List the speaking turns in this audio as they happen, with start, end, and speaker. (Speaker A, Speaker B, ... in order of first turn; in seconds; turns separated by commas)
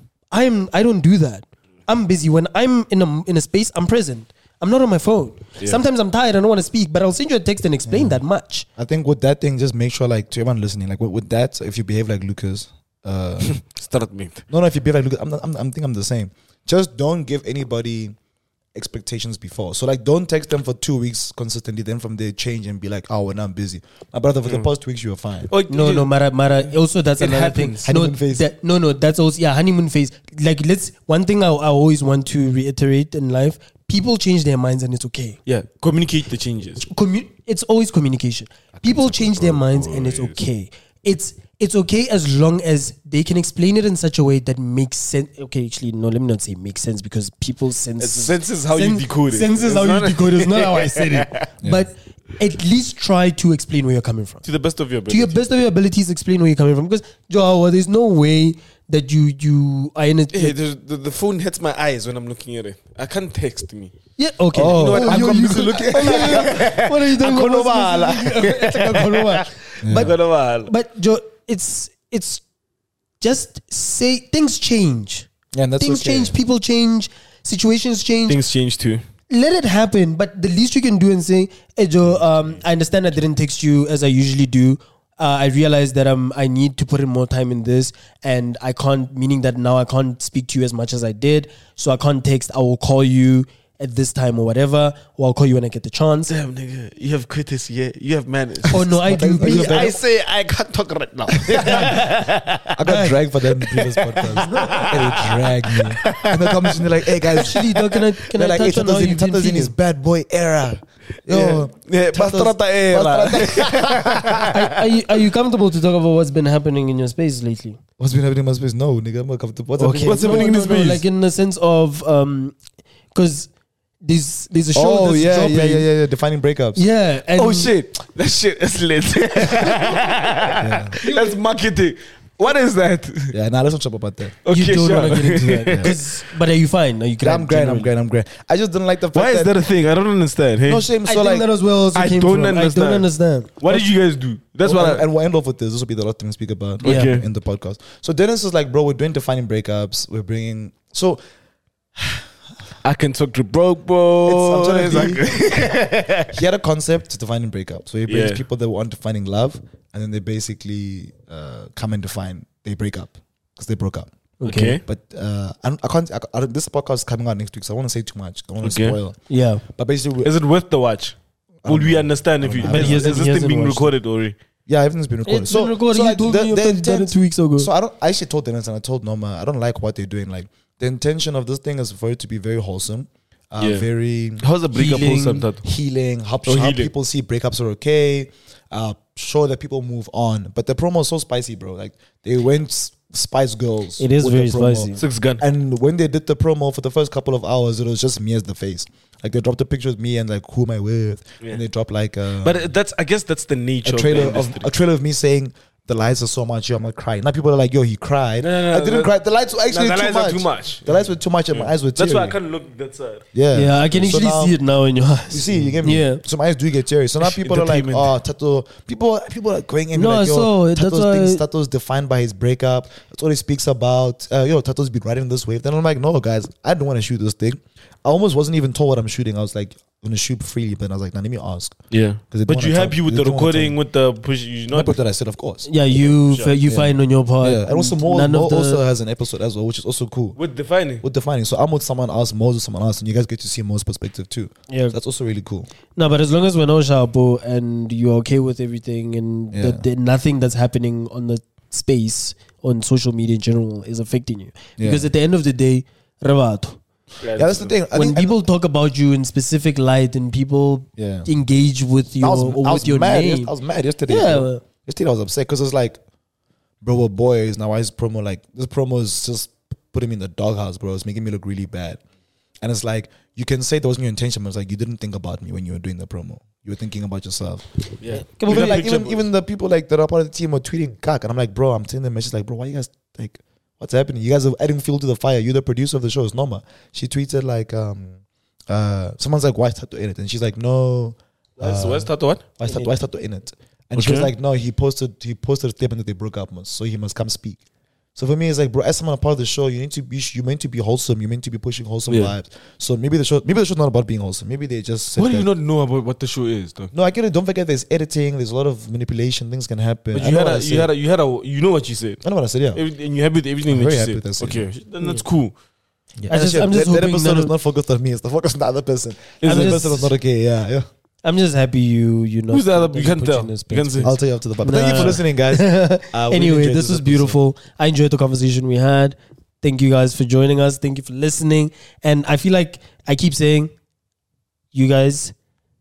Speaker A: 0.3-8.7, Speaker B: 7.9-8.2, Speaker B: 8.8-13.6, Speaker C: 13.4-14.4, Speaker B: 14.5-18.1, Speaker B: 18.7-25.5, Speaker C: 25.5-26.1, Speaker A: 25.7-35.4, Speaker C: 27.2-27.8, Speaker B: 27.8-28.5, Speaker C: 35.5-36.9, Speaker A: 36.9-54.4, Speaker C: 38.8-40.4, Speaker C: 48.0-51.4, Speaker C: 54.4-55.5, Speaker A: 55.1-60.5, Speaker C: 60.3-63.9, Speaker A: 64.2-70.1, Speaker B: 64.5-68.0, Speaker C: 64.6-70.7, Speaker B: 69.8-70.1, Speaker A: 70.7-72.4, Speaker A: 73.2-75.3, Speaker B: 75.5-76.3, Speaker A: 75.8-78.4, Speaker C: 78.3-79.0, Speaker A: 79.3-96.3, Speaker C: 96.3-102.8, Speaker A: 98.7-99.9, Speaker B: 98.7-100.0, Speaker B: 101.5-102.0, Speaker B: 102.7-107.6, Speaker A: 102.9-103.2, Speaker C: 103.6-108.0, Speaker A: 104.4-104.9, Speaker A: 107.3-109.7, Speaker B: 108.2-114.5, Speaker C: 111.3-115.0, Speaker A: 114.5-117.8, Speaker B: 118.0-120.5, Speaker A: 119.8-122.5, Speaker C: 119.9-121.0, Speaker A: 123.1-123.5, Speaker A: 124.0-125.8, Speaker B: 124.7-126.8, Speaker A: 126.8-127.7, Speaker C: 127.3-133.4, Speaker B: 130.6-130.9, Speaker A: 131.0-131.4, Speaker B: 133.3-134.4, Speaker C: 134.4-136.0, Speaker A: 134.5-137.9, Speaker B: 135.7-135.9, Speaker B: 137.2-139.5, Speaker C: 139.1-140.9, Speaker B: 140.6-141.4, Speaker A: 141.1-143.5, Speaker C: 141.9-145.0, Speaker B: 144.6-151.2, Speaker C: 146.8-147.3, Speaker A: 146.8-147.1, Speaker B: 151.9-152.3, Speaker C: 152.8-156.3, Speaker B: 154.3-155.7, Speaker B: 156.3-164.1, Speaker C: 158.1-158.4, Speaker A: 164.4-164.8, Speaker C: 164.4-164.8, Speaker B: 164.8-170.3, Speaker C: 168.6-169.0, Speaker A: 169.3-169.6, Speaker C: 170.2-174.4, Speaker B: 171.6-173.2, Speaker A: 172.7-173.9, Speaker B: 174.7-202.6, Speaker A: 175.3-177.7, Speaker C: 183.6-183.9, Speaker C: 184.4-185.6, Speaker A: 184.7-185.4, Speaker C: 186.4-186.9, Speaker A: 194.0-195.0, Speaker C: 195.0-195.4, Speaker C: 202.4-204.7, Speaker B: 203.8-212.4, Speaker C: 208.4-213.2, Speaker B: 213.3-214.6, Speaker A: 213.5-216.2, Speaker B: 215.3-231.8, Speaker C: 217.2-218.1, Speaker A: 219.9-221.4, Speaker C: 231.9-235.0, Speaker B: 232.3-233.8, Speaker B: 234.7-235.7, Speaker A: 235.6-238.8, Speaker C: 236.0-236.6, Speaker B: 236.6-240.4, Speaker C: 240.4-241.0, Speaker B: 241.0-245.7, Speaker A: 244.7-244.9, Speaker A: 245.9-256.8, Speaker B: 249.5-249.8, Speaker B: 254.8-255.1, Speaker C: 257.2-257.7, Speaker B: 257.4-258.4, Speaker A: 257.9-263.5, Speaker B: 261.0-261.3, Speaker B: 262.2-266.0, Speaker A: 264.1-264.6, Speaker B: 266.8-272.0, Speaker B: 272.6-277.7, Speaker C: 278.0-279.2, Speaker A: 278.1-278.8, Speaker B: 278.4-288.2, Speaker B: 288.7-297.6, Speaker C: 291.6-292.4, Speaker C: 293.9-294.3, Speaker B: 298.2-305.5, Speaker C: 302.1-302.3, Speaker C: 305.1-306.9, Speaker B: 306.9-310.9, Speaker C: 310.1-315.5, Speaker B: 312.2-312.8, Speaker B: 313.7-314.7, Speaker B: 316.2-320.9, Speaker C: 316.3-316.7, Speaker A: 316.3-317.5, Speaker C: 319.4-319.9, Speaker A: 319.4-320.1, Speaker A: 321.2-333.7, Speaker C: 322.5-324.1, Speaker B: 324.0-327.4, Speaker A: 334.7-335.3